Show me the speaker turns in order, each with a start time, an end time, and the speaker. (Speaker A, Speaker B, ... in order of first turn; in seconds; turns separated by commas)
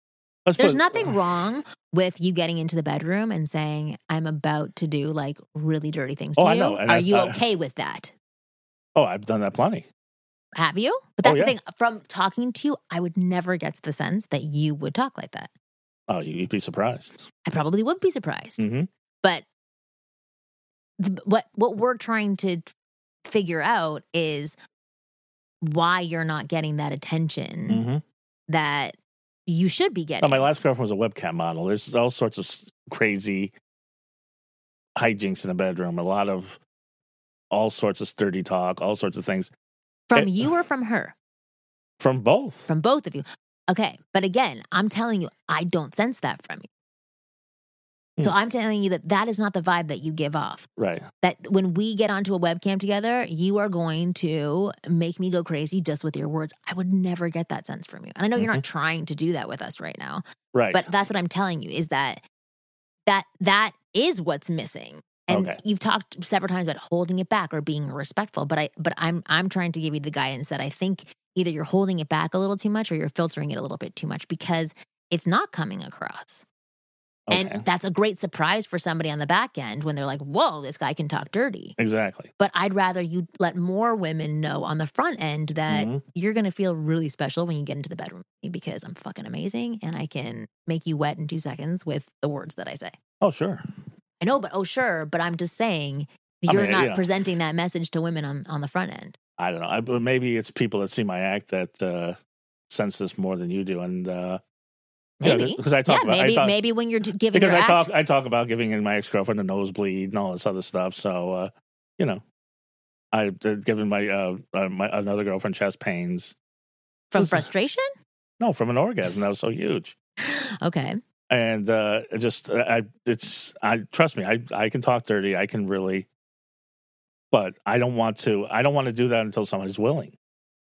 Speaker A: 0.4-1.2, Speaker B: 0.6-8.1, Speaker A: 6.3-7.4, Speaker A: 8.9-9.9, Speaker B: 10.5-15.5, Speaker A: 11.2-11.5, Speaker A: 16.1-17.3, Speaker B: 17.4-18.6, Speaker A: 18.6-18.9, Speaker B: 21.0-22.7, Speaker B: 23.2-24.5, Speaker B: 25.6-27.8, Speaker A: 27.7-28.0, Speaker B: 28.5-28.9, Speaker B: 29.5-30.4, Speaker A: 30.2-33.5, Speaker A: 35.0-36.6, Speaker A: 37.5-39.5, Speaker B: 40.1-41.1, Speaker A: 40.1-40.5, Speaker A: 42.0-42.7, Speaker B: 42.7-46.7, Speaker B: 48.2-50.7, Speaker A: 50.8-51.1, Speaker B: 51.2-62.2, Speaker A: 58.4-58.6, Speaker A: 60.5-60.9, Speaker B: 63.1-76.4, Speaker A: 65.3-65.6, Speaker A: 77.3-77.6, Speaker B: 77.3-81.8, Speaker A: 81.8-82.3, Speaker B: 82.4-92.9, Speaker A: 85.7-86.0, Speaker A: 93.2-93.6, Speaker B: 94.2-99.2, Speaker A: 96.5-97.1, Speaker A: 99.4-102.2, Speaker A: 102.7-104.4, Speaker B: 105.2-107.9, Speaker A: 105.2-106.5, Speaker A: 107.3-112.2, Speaker A: 113.1-116.3, Speaker B: 117.1-117.8, Speaker A: 117.2-117.5, Speaker A: 118.4-120.0, Speaker B: 120.2-121.0, Speaker A: 121.3-126.1, Speaker A: 127.3-130.1